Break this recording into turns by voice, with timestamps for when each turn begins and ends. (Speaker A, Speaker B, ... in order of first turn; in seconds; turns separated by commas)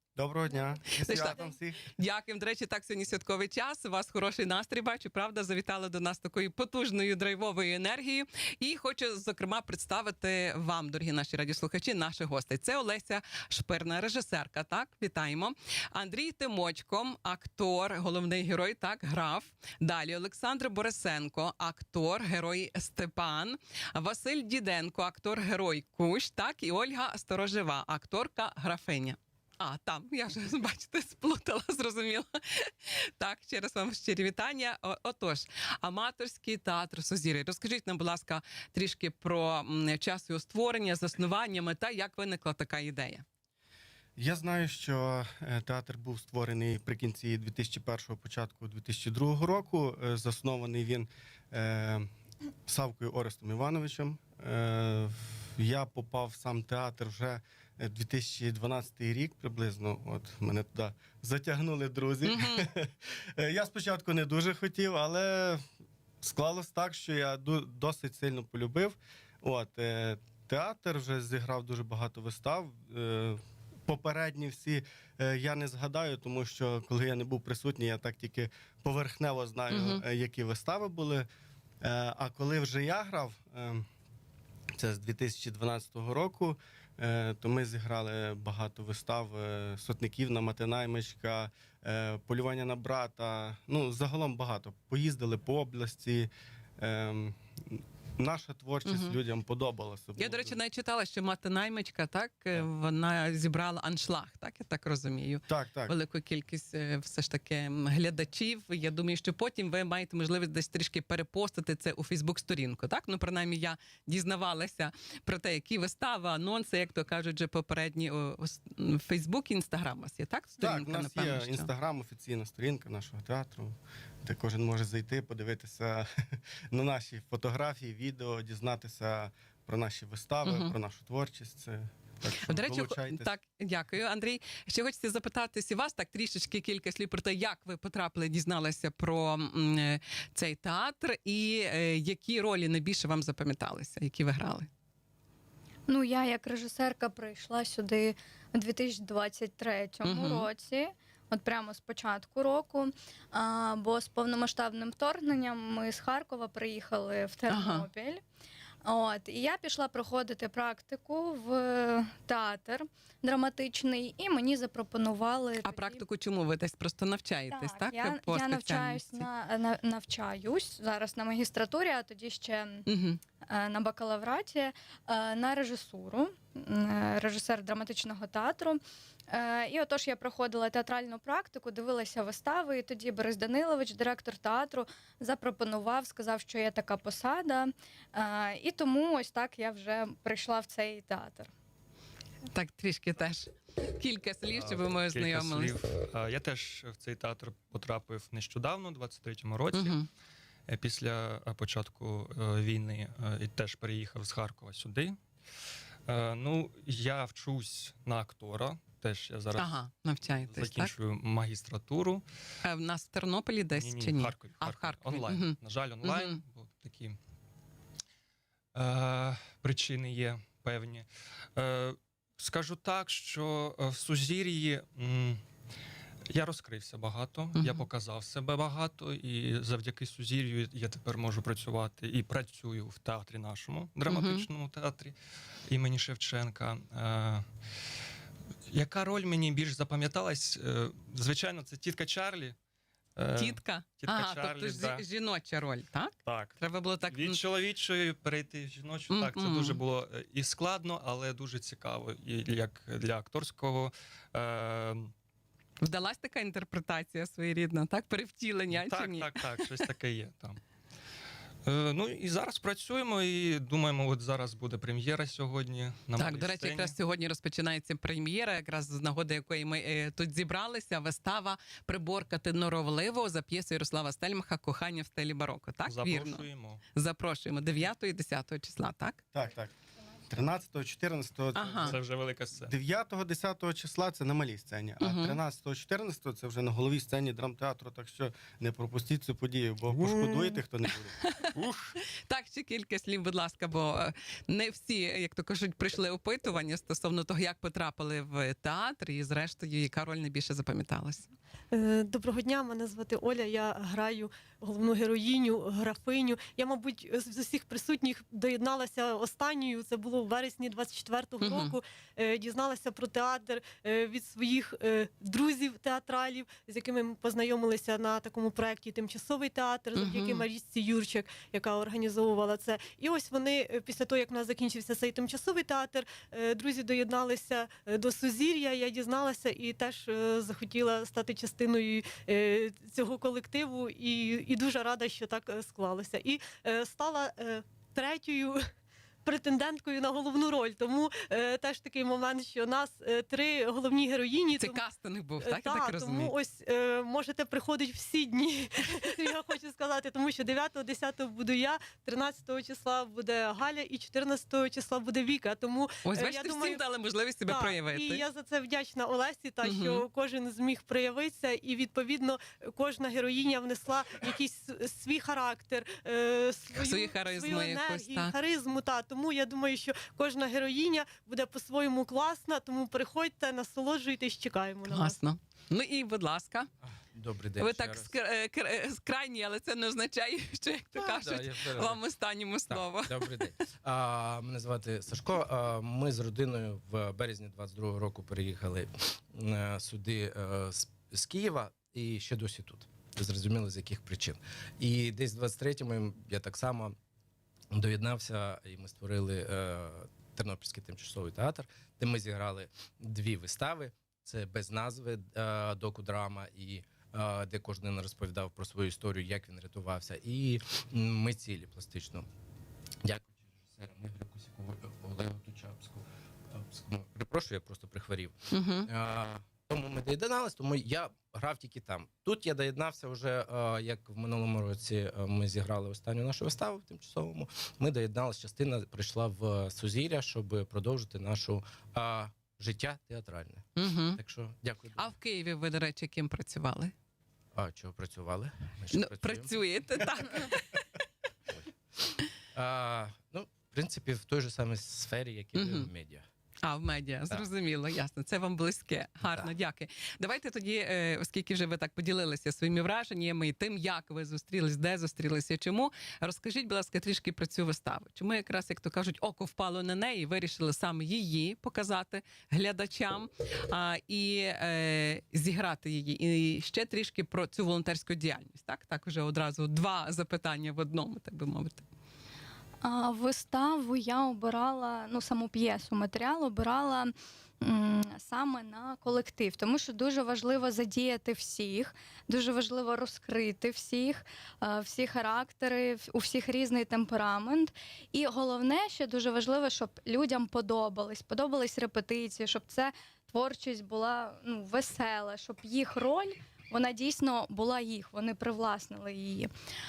Speaker A: 0.2-1.8, Speaker B: 1.0-43.2, Speaker A: 44.2-52.1, Speaker A: 52.6-65.6, Speaker B: 62.2-62.7, Speaker A: 66.2-81.3, Speaker B: 79.7-80.0, Speaker A: 81.8-83.8, Speaker A: 84.8-100.5, Speaker B: 98.8-99.2, Speaker B: 100.2-121.7, Speaker A: 105.5-105.9, Speaker A: 120.6-126.1, Speaker A: 126.7-133.3, Speaker B: 130.4-130.7, Speaker B: 132.4-144.7, Speaker C: 145.9-158.2, Speaker B: 150.0-150.5, Speaker B: 157.5-157.9, Speaker C: 158.8-166.0, Speaker B: 165.6-169.3, Speaker C: 167.5-172.9, Speaker B: 172.9-173.2, Speaker C: 173.5-191.5, Speaker B: 192.5-195.7, Speaker D: 194.5-200.0, Speaker B: 199.7-200.1, Speaker D: 200.7-205.2, Speaker D: 206.1-209.8, Speaker B: 209.6-210.9, Speaker D: 210.5-212.2, Speaker B: 212.6-216.4, Speaker D: 213.7-217.2, Speaker D: 218.7-225.4, Speaker D: 226.3-235.1, Speaker B: 227.6-227.8, Speaker B: 234.1-234.5, Speaker D: 235.7-237.4, Speaker D: 238.7-242.6, Speaker D: 243.2-245.0, Speaker B: 243.4-247.4, Speaker D: 246.2-255.1, Speaker B: 249.1-249.8, Speaker B: 255.8-259.4, Speaker D: 258.7-260.6, Speaker D: 261.6-266.9, Speaker B: 266.2-279.2, Speaker D: 275.9-276.8, Speaker A: 279.3-279.7, Speaker A: 280.3-282.0, Speaker B: 281.5-282.0, Speaker D: 281.8-282.7, Speaker A: 282.7-291.1, Speaker B: 285.0-285.4, Speaker D: 289.9-290.2, Speaker B: 291.2-291.5, Speaker D: 291.5-292.0, Speaker B: 292.2-301.3, Speaker E: 301.7-338.6, Speaker B: 311.4-311.8, Speaker B: 319.9-320.4, Speaker E: 339.2-344.8, Speaker B: 344.6-346.3, Speaker E: 345.4-356.8, Speaker B: 356.0-358.2, Speaker E: 357.4-375.2, Speaker B: 359.6-360.0, Speaker B: 366.7-368.3, Speaker B: 374.9-376.7, Speaker F: 377.0-378.1, Speaker B: 377.6-383.4, Speaker F: 381.0-382.0, Speaker F: 382.7-396.9, Speaker F: 397.7-412.3, Speaker F: 413.0-435.1, Speaker B: 418.5-418.9, Speaker B: 433.8-434.2, Speaker B: 435.0-436.9, Speaker F: 437.5-439.6, Speaker B: 438.9-440.7, Speaker F: 442.5-446.2, Speaker B: 445.5-445.9, Speaker B: 446.6-471.8, Speaker C: 472.8-499.5